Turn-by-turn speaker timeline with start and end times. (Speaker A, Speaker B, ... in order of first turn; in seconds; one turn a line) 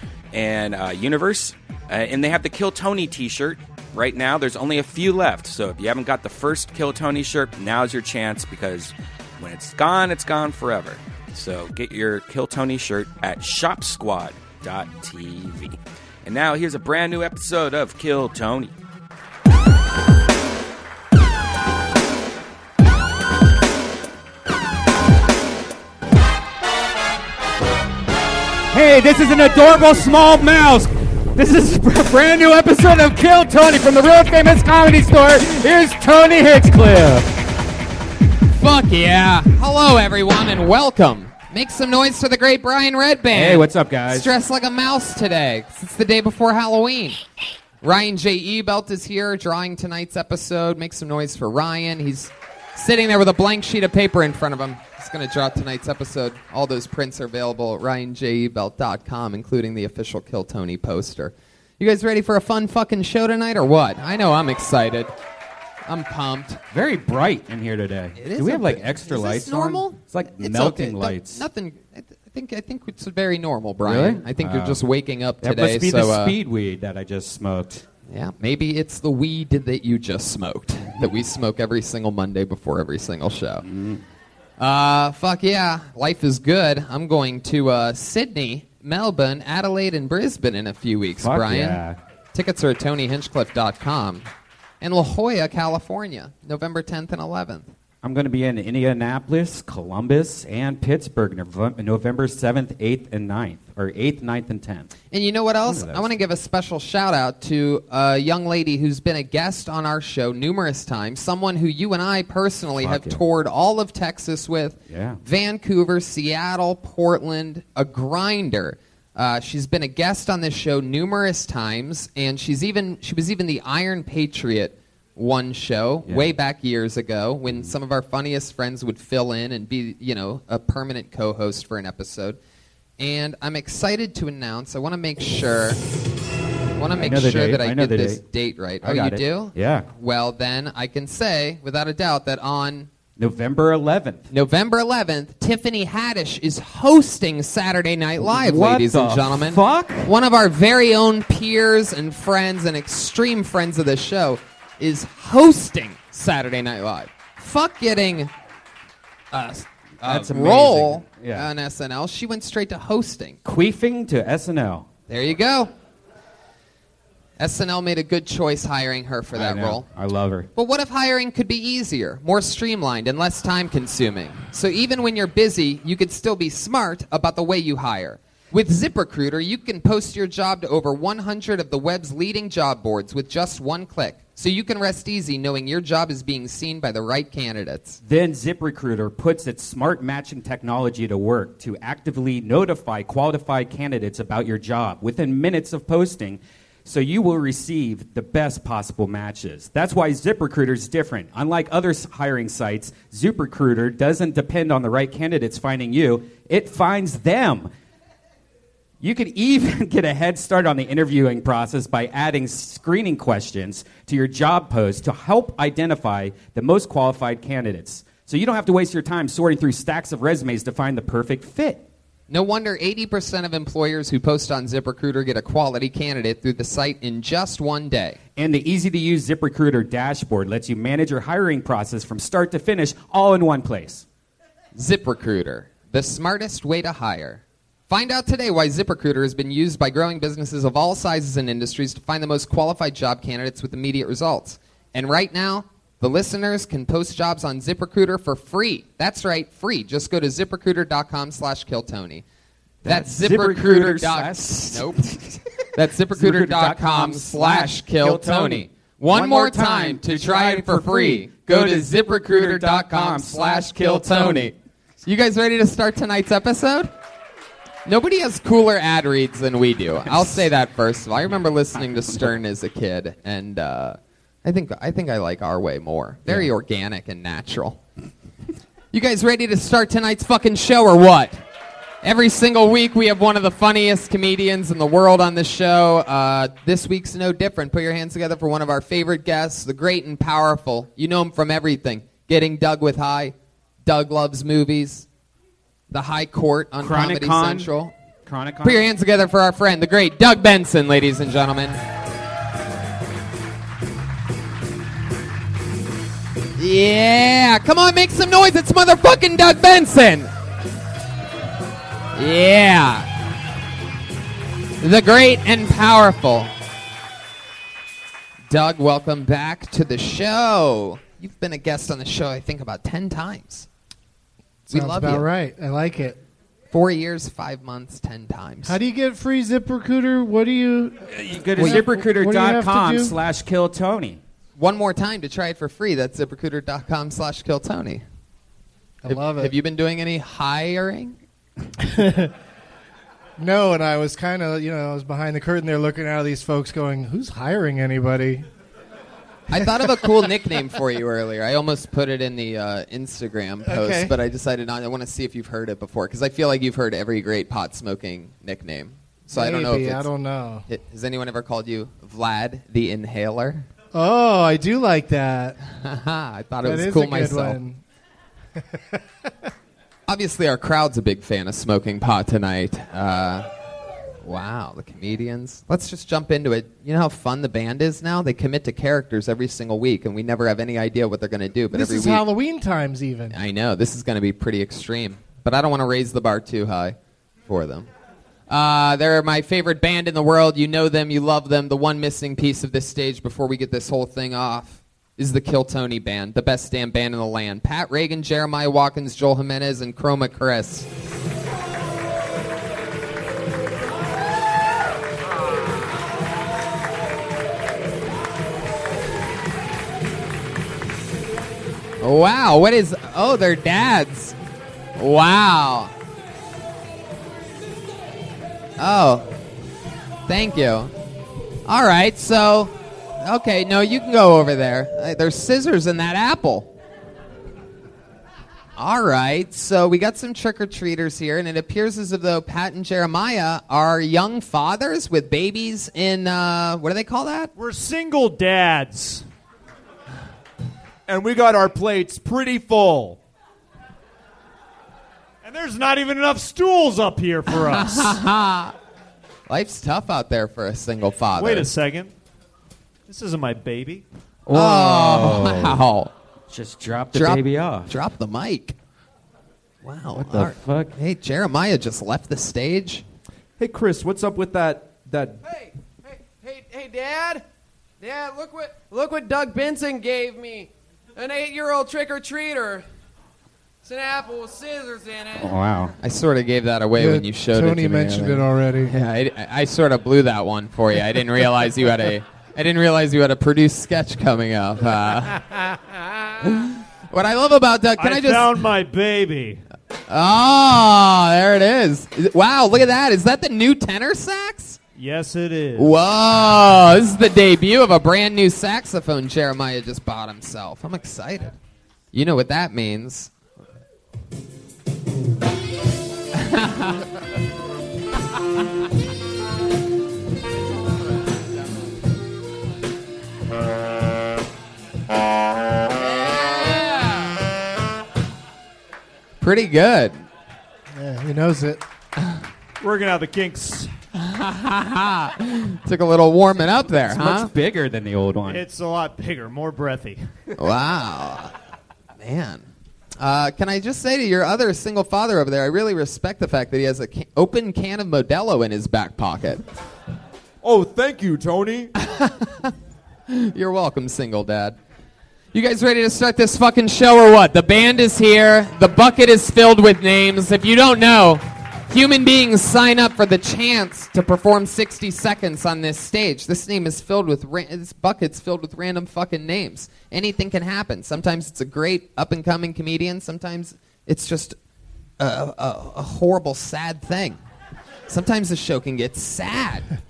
Speaker A: 0.3-18.7
Speaker B: 28.7-37.3
Speaker C: 38.6-47.2
Speaker B: 43.3-44.3
Speaker C: 47.8-65.1
Speaker C: 65.9-66.6
Speaker B: 66.7-71.5
Speaker C: 68.2-76.4
Speaker B: 73.8-74.8
Speaker B: 75.4-77.8
Speaker C: 78.1-83.7
Speaker B: 83.7-84.0
Speaker C: 84.6-91.8
Speaker B: 91.2-92.0
Speaker C: 92.3-94.3
Speaker C: 94.8-97.7
Speaker B: 98.0-104.9
Speaker C: 105.1-132.4
Speaker B: 105.7-106.2
Speaker B: 112.8-113.2
Speaker B: 114.9-115.2
Speaker B: 126.1-126.3
Speaker B: 127.5-127.7
Speaker C: 133.0-135.8
Speaker C: 136.8-142.9
Speaker B: 136.9-138.2
Speaker B: 138.8-139.9
Speaker B: 143.2-144.3
Speaker C: 144.3-158.3
Speaker B: 148.2-150.1
Speaker C: 159.3-163.4
Speaker B: 160.0-161.5
Speaker B: 163.4-164.9
Speaker C: 165.1-165.7
Speaker C: 167.4-169.8
Speaker B: 169.3-170.5
Speaker C: 170.6-188.0
Speaker B: 188.1-207.7
Speaker B: 209.0-221.8
Speaker C: 222.3-228.2
Speaker B: 228.4-234.1
Speaker C: 234.8-252.2
Speaker C: 252.8-255.1
Speaker B: 252.8-255.4
Speaker C: 255.8-266.9
Speaker B: 256.1-264.5
Speaker C: 267.9-277.8
Speaker C: 278.9-281.4
Speaker C: 282.0-295.1
Speaker C: 295.9-297.9
Speaker B: 296.8-297.7
Speaker B: 298.3-298.9
Speaker C: 298.6-301.8
Speaker C: 306.6-310.3
Speaker C: 312.2-313.1
Speaker C: 314.8-316.5
Speaker C: 318.5-323.7
Speaker C: 324.7-325.3
Speaker D: 324.7-326.2
Speaker C: 326.7-328.8
Speaker D: 328.6-331.0
Speaker B: 331.1-334.2
Speaker D: 331.6-333.2
Speaker C: 334.6-338.0
Speaker D: 339.0-339.5
Speaker C: 339.1-341.2
Speaker D: 341.8-342.3
Speaker D: 343.4-348.5
Speaker C: 349.5-360.1
Speaker D: 349.6-349.9
Speaker D: 353.6-354.2
Speaker D: 359.3-360.6
Speaker C: 360.7-363.7
Speaker D: 363.9-365.6
Speaker C: 365.7-367.6
Speaker D: 366.6-367.8
Speaker D: 368.7-369.0
Speaker C: 370.1-373.5
Speaker C: 374.2-382.2
Speaker D: 381.7-383.4
Speaker C: 383.3-387.0
Speaker C: 387.5-387.9
Speaker C: 388.5-400.9
Speaker C: 412.0-414.4
Speaker C: 415.0-415.9
Speaker C: 418.8-419.3
Speaker C: 420.3-420.9
Speaker C: 421.7-426.7
Speaker C: 428.8-437.5
Speaker E: 437.6-439.3
Speaker E: 441.1-443.2
Speaker F: 441.9-442.5
Speaker E: 445.4-448.2
Speaker C: 447.5-448.7
Speaker C: 449.5-451.7
Speaker E: 451.4-452.1
Speaker E: 453.1-454.1
Speaker B: 454.5-455.8
Speaker C: 454.5-456.1
Speaker B: 456.5-457.9
Speaker C: 457.1-458.8
Speaker C: 459.8-463.0
Speaker B: 460.1-460.9
Speaker F: 463.6-465.4
Speaker G: 465.4-467.4
Speaker G: 468.0-472.9
Speaker G: 473.8-475.7
Speaker B: 475.4-475.9
Speaker C: 476.0-485.6
Speaker D: 477.0-478.9
Speaker C: 486.4-488.7
Speaker E: 488.0-489.6
Speaker C: 490.1-494.8
Speaker E: 495.0-496.1
Speaker C: 495.8-501.6
Speaker C: 502.1-503.3
Speaker C: 506.3-507.1
Speaker C: 519.4-520.2
Speaker D: 520.9-521.8
Speaker E: 522.8-523.9
Speaker C: 524.2-527.5
Speaker B: 527.1-528.7
Speaker E: 528.5-530.3
Speaker C: 530.6-531.5
Speaker C: 532.2-532.6
Speaker C: 533.2-539.6
Speaker F: 540.6-541.9
Speaker C: 542.0-542.7
Speaker C: 543.3-544.8
Speaker C: 545.5-564.6
Speaker C: 565.2-567.4
Speaker C: 568.1-569.9